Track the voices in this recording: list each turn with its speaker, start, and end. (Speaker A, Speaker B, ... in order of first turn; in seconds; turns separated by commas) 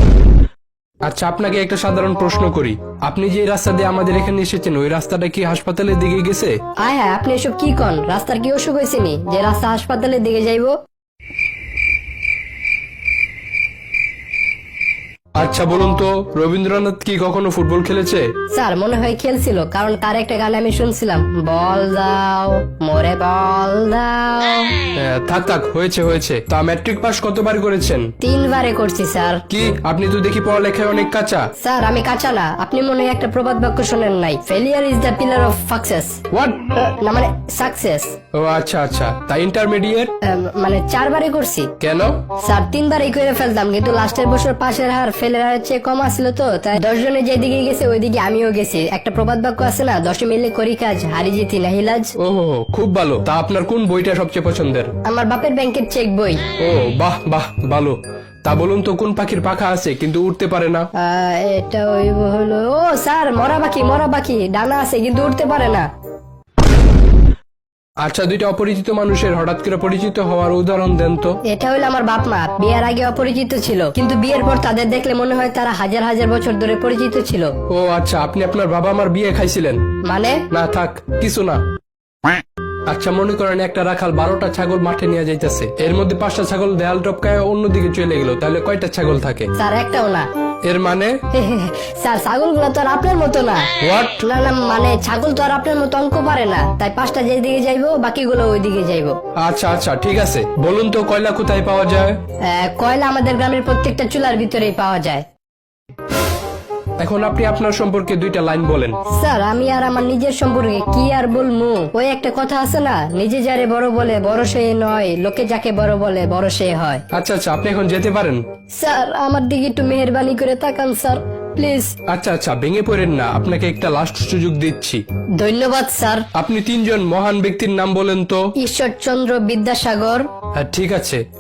Speaker A: 1.1-6.6, Speaker B: 6.8-10.7, Speaker A: 15.4-18.3, Speaker B: 18.5-24.8, Speaker A: 24.9-28.1, Speaker B: 28.2-29.4, Speaker A: 29.5-31.5, Speaker B: 31.6-36.2, Speaker A: 36.3-36.7, Speaker B: 36.8-38.1, Speaker A: 38.3-40.1, Speaker B: 40.2-41.7, Speaker A: 41.8-42.2, Speaker B: 42.4-52.1, Speaker A: 52.2-54.9, Speaker B: 55.1-56.5, Speaker A: 56.6-60.9, Speaker B: 61.0-65.9, Speaker A: 68.0-71.4, Speaker B: 71.5-77.5, Speaker A: 77.7-79.8, Speaker B: 80.0-80.5, Speaker A: 80.5-81.6, Speaker A: 82.9-89.5, Speaker B: 89.6-90.3, Speaker A: 90.7-91.2, Speaker B: 91.3-99.2, Speaker A: 93.8-94.2, Speaker A: 99.4-102.2, Speaker B: 102.5-105.2, Speaker A: 107.0-109.0, Speaker B: 109.2-117.0, Speaker A: 117.1-118.4, Speaker B: 118.8-122.0, Speaker A: 122.1-125.0, Speaker B: 125.4-126.3, Speaker A: 126.3-128.5, Speaker B: 128.6-130.3, Speaker A: 130.6-131.2